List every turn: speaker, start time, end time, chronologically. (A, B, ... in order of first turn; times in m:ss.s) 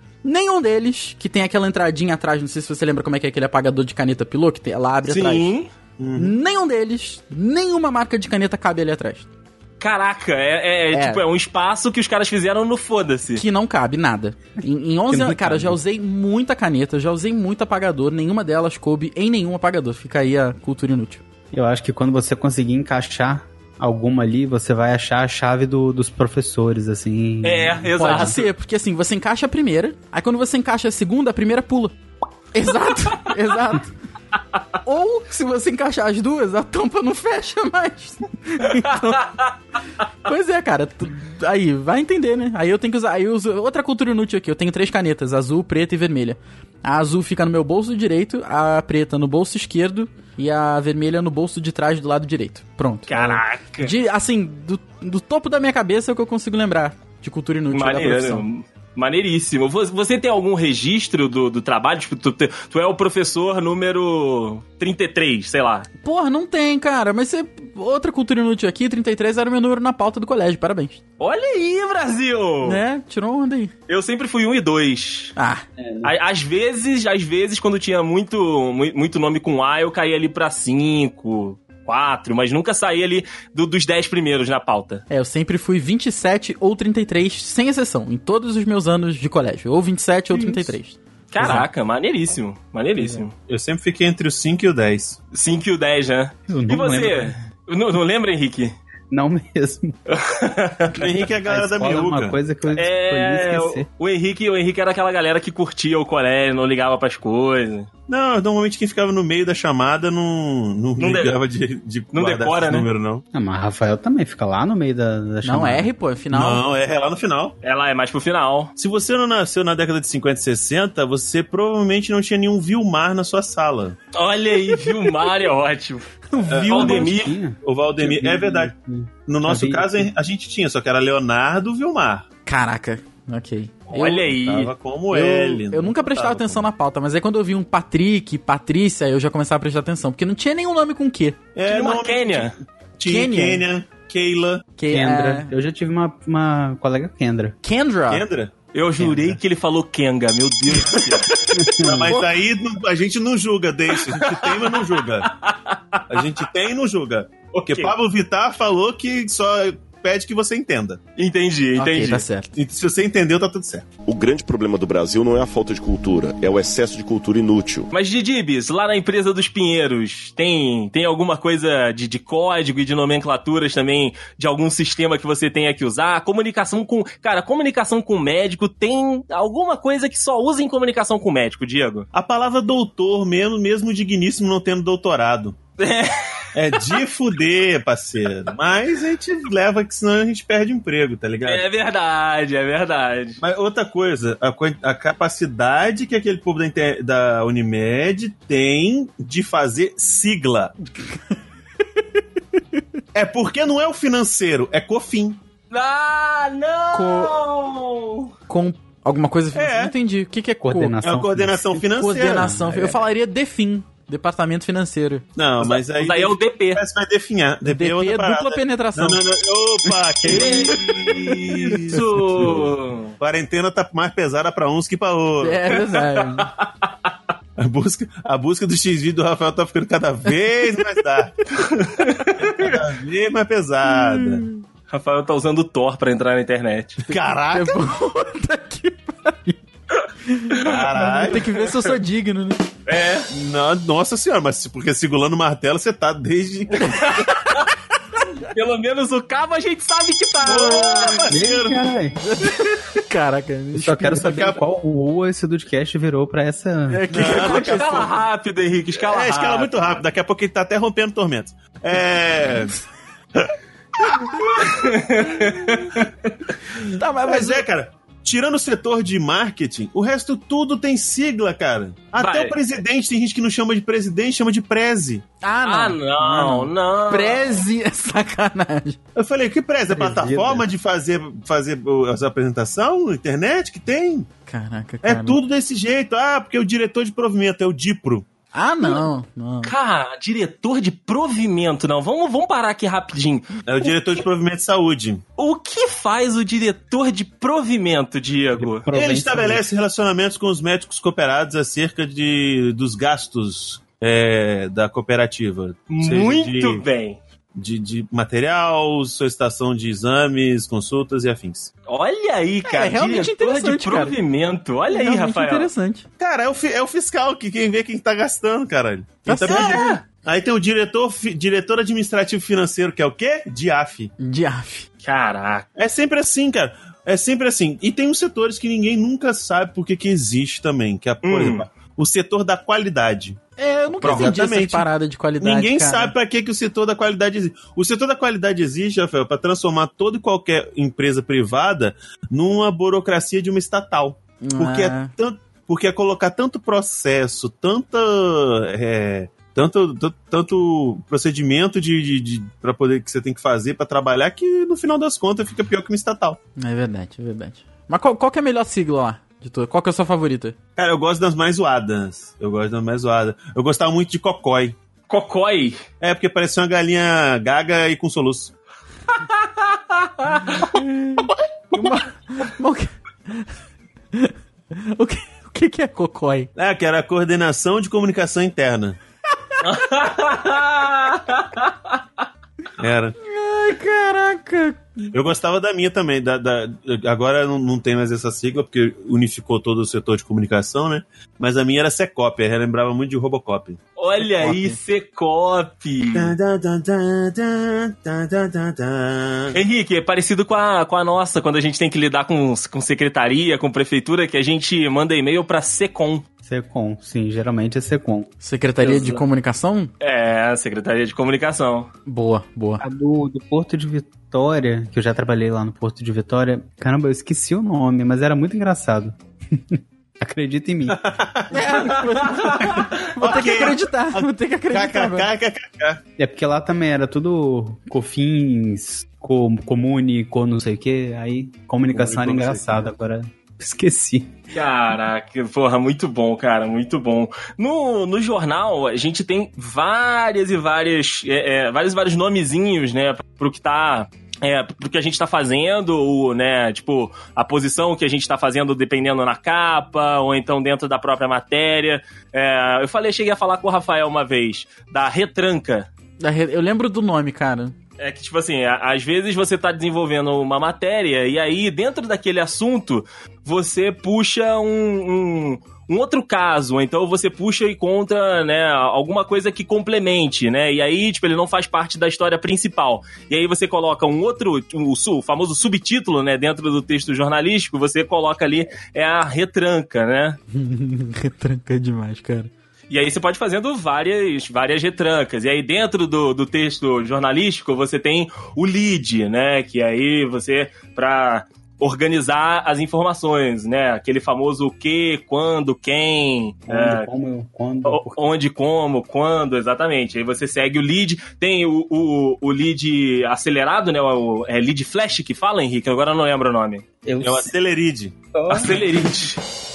0:00.2-0:05.5 A
0:05.1-0:05.7 B
0:06.0-0:06.4 C
0:06.2-0:09.3 A
0:09.8-0:13.4 B
0:10.9-0:11.2 A
0:13.4-0:21.2 A
0:15.1-0:15.8 D
0:21.5-0:28.3 D
0:27.4-0:28.5 B
0:28.0-0:32.0 A
0:32.5-0:33.9 A
0:34.8-0:39.4 A
0:38.8-0:39.3 B
0:40.2-0:58.4 A
0:53.1-0:54.0 B
0:57.7-1:05.9 B
1:06.0-1:11.0 A
1:11.2-1:12.8 B
1:12.6-1:13.7 A
1:13.9-1:15.3 B
1:15.4-1:15.6 A
1:15.8-1:16.1 D
1:16.0-1:25.0 B
1:25.1-1:31.0 A
1:30.3-1:30.8 D
1:31.3-1:33.3 B
1:31.4-1:31.7 D
1:33.5-1:35.2 C
1:35.3-1:38.7 B
1:36.5-1:37.4 D
1:39.1-1:40.0 D
1:40.1-1:41.1 B
1:40.9-1:42.4 C
1:41.4-1:43.9 D
1:42.7-1:47.9 B
1:48.1-1:53.2 C
1:51.0-1:51.4 B
1:52.1-1:52.9 B
1:53.3-1:55.9 D
1:55.4-1:56.6 A
1:56.3-1:57.6 C
1:57.6-1:58.7 B
1:58.8-2:04.0 C
2:04.1-2:06.1 B
2:06.3-2:07.2 A
2:06.5-2:07.1 C
2:06.7-2:07.4 B
2:06.7-2:10.1 D
2:07.6-2:08.7 C
2:09.3-2:12.3 C
2:12.5-2:14.3 A
2:13.9-2:14.7 B
2:14.3-2:16.7 C
2:15.1-2:21.4 A
2:21.6-2:24.7 C
2:21.7-2:22.5 B
2:23.0-2:23.6 A
2:24.8-2:25.5 A
2:24.9-2:27.6 D
2:27.6-2:28.3 A
2:28.1-2:28.5 C
2:28.7-2:32.3 B
2:29.0-2:29.4 D
2:31.5-2:32.1 D
2:31.8-2:35.3 C
2:34.0-2:36.4 B
2:36.1-2:41.0 C
2:37.6-2:37.9 B
2:41.2-2:42.2 B
2:41.8-2:42.5 A
2:42.5-2:43.9 C
2:44.1-2:47.9 E
2:47.9-3:02.1 B
3:02.1-3:05.6 C
3:05.8-3:07.0 B
3:06.6-3:11.6 C
3:11.4-3:13.4 B
3:13.4-3:20.7 C
3:23.1-3:25.4 C
3:25.7-3:28.3 B
3:26.9-3:27.3 A
3:28.5-3:31.0 A
3:29.5-3:29.9 C
3:30.6-3:33.0 D
3:31.0-3:32.5 C
3:31.9-3:35.2 A
3:35.4-3:42.7 C
3:35.6-3:36.8 B
3:37.6-3:39.2 A
3:39.8-3:41.2 D
3:40.3-3:43.2 B
3:43.2-3:45.7 C
3:45.4-3:46.5 A
3:46.1-3:47.1 B
3:47.6-3:54.4 C
3:52.0-3:52.8 B
3:53.9-3:54.6 A
3:54.9-3:57.0 B
3:57.0-3:57.8 C
3:57.1-3:59.6 A
4:00.3-4:02.6 A
4:00.5-4:01.8 B
4:00.6-4:01.4 C
4:02.9-4:03.3 B
4:03.3-4:07.3 C
4:06.8-4:07.7 B
4:08.4-4:11.4 B
4:10.4-4:11.9 C
4:11.3-4:12.2 D
4:12.2-4:14.6 A
4:13.7-4:17.2 D
4:16.9-4:18.1 A
4:17.1-4:18.2 C
4:17.2-4:19.7 B
4:19.0-4:22.8 C
4:23.4-4:24.6 C
4:24.4-4:26.3 B
4:26.7-4:35.2 C
4:26.8-4:27.6 A
4:32.2-4:32.6 B
4:35.4-4:39.0 A
4:35.7-4:37.5 B
4:39.2-4:44.3 C
4:39.9-4:40.7 D
4:44.5-4:45.4 A
4:45.0-4:48.3 C
4:48.5-4:49.7 A
4:49.6-4:53.9 B
4:53.7-4:55.2 C
4:55.4-4:58.9 B
4:58.6-4:59.6 D
4:58.9-5:06.9 C
5:05.9-5:07.2 B
5:07.6-5:11.7 C
5:11.9-5:15.7 B
5:12.7-5:14.2 A
5:14.9-5:16.1 A
5:16.2-5:24.1 C
5:19.3-5:19.9 A
5:19.5-5:20.0 B
5:24.2-5:24.9 A
5:25.0-5:25.7 B
5:25.8-5:34.9 C
5:31.2-5:31.7 B
5:33.6-5:36.1 A
5:35.4-5:56.4 C
5:44.4-5:45.1 A
5:56.6-6:00.6 A
6:00.8-6:04.8 C
6:05.1-6:05.8 B
6:06.0-6:08.5 C
6:09.1-6:10.7 B
6:10.7-6:13.5 A
6:14.1-6:16.5 A
6:16.6-6:19.0 C
6:19.6-6:22.0 B
6:22.8-6:23.2 C
6:23.2-6:25.1 A
6:25.1-6:33.8 C
6:34.0-6:36.4 B
6:34.4-6:34.8 A
6:36.1-6:39.6 C
6:39.5-6:46.2 B
6:46.4-6:48.3 D
6:48.4-6:49.9 A
6:48.8-6:49.2 B
6:50.0-6:51.9 B
6:52.1-6:52.8 A
6:52.8-7:01.1 D
7:00.9-7:01.8 C
7:01.5-7:05.3 A
7:02.3-7:02.8 B
7:02.8-7:06.0 C
7:06.2-7:14.4 D
7:11.9-7:12.8 C
7:14.5-7:35.9 B
7:36.2-7:37.8 A
7:38.0-8:00.4 B
8:00.5-8:02.5 A
8:02.9-8:17.1 B
8:16.7-8:18.2 D
8:17.8-8:26.8 B
8:27.0-8:27.5 D
8:27.2-8:28.2 C
8:28.3-8:28.9 D
8:28.5-8:29.4 B